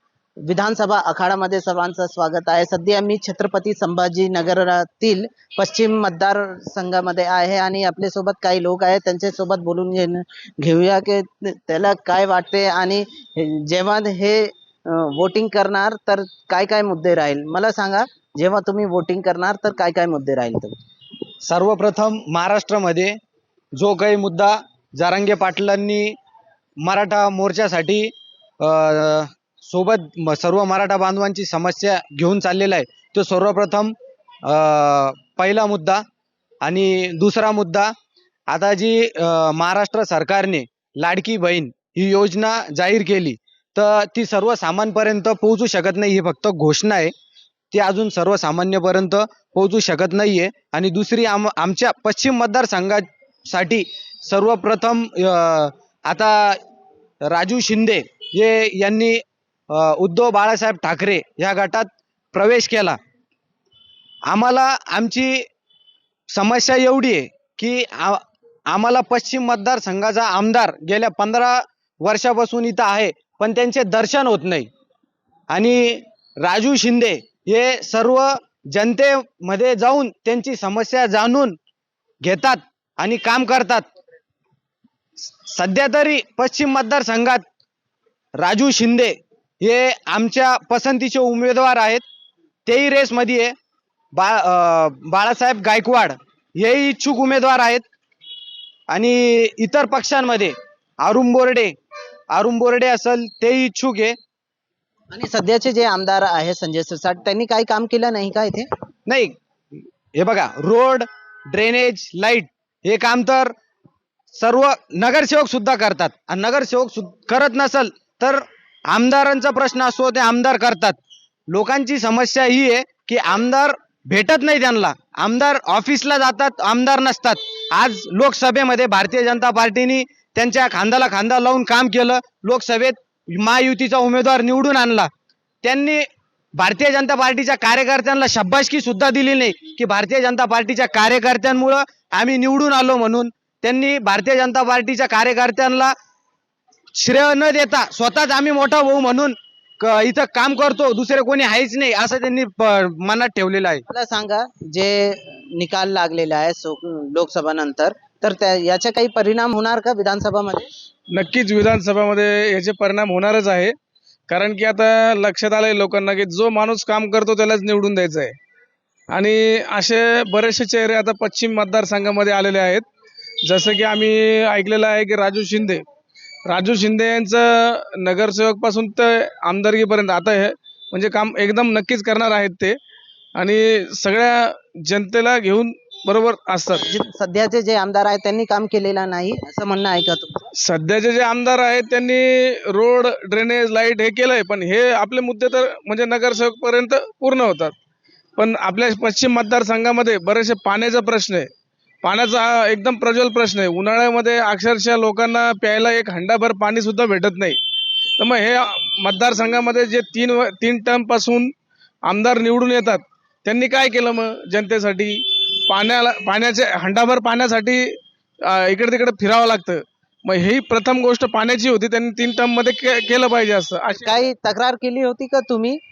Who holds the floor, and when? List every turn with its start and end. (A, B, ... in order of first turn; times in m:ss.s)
0:00.4-0:20.7 A
0:21.4-0:23.2 B
0:23.8-0:26.1 B
0:26.8-0:28.1 B
0:28.6-0:33.9 B
0:34.5-0:36.0 B
0:36.6-0:37.9 B
0:38.5-0:47.1 B
0:47.7-0:56.6 B
0:57.2-1:03.0 B
1:04.3-1:05.4 B
1:06.3-1:14.7 B
1:15.5-1:21.6 B
1:22.2-1:23.8 B
1:25.2-1:27.4 B
1:28.4-1:32.0 B
1:32.6-1:33.5 B
1:34.1-1:37.8 B
1:38.9-1:41.7 B
1:42.3-1:44.2 B
1:45.1-1:48.7 A
1:49.1-1:49.3 B
1:50.2-1:53.5 B
1:54.3-2:01.0 B
2:01.5-2:15.1 B
2:15.6-2:25.9 B
2:27.0-2:33.8 B
2:33.9-2:40.7 A
2:41.1-2:43.7 C
2:44.3-2:48.3 C
2:49.1-2:52.8 C
2:53.5-2:55.8 C
2:56.5-3:02.8 C
3:03.4-3:06.8 C
3:06.8-3:10.4 A
3:10.6-3:17.7 C
3:18.4-3:21.5 C
3:22.0-3:27.6 C
3:28.2-3:31.5 C
3:32.0-3:37.8 C
3:38.4-3:44.0 C
3:44.0-3:45.8 A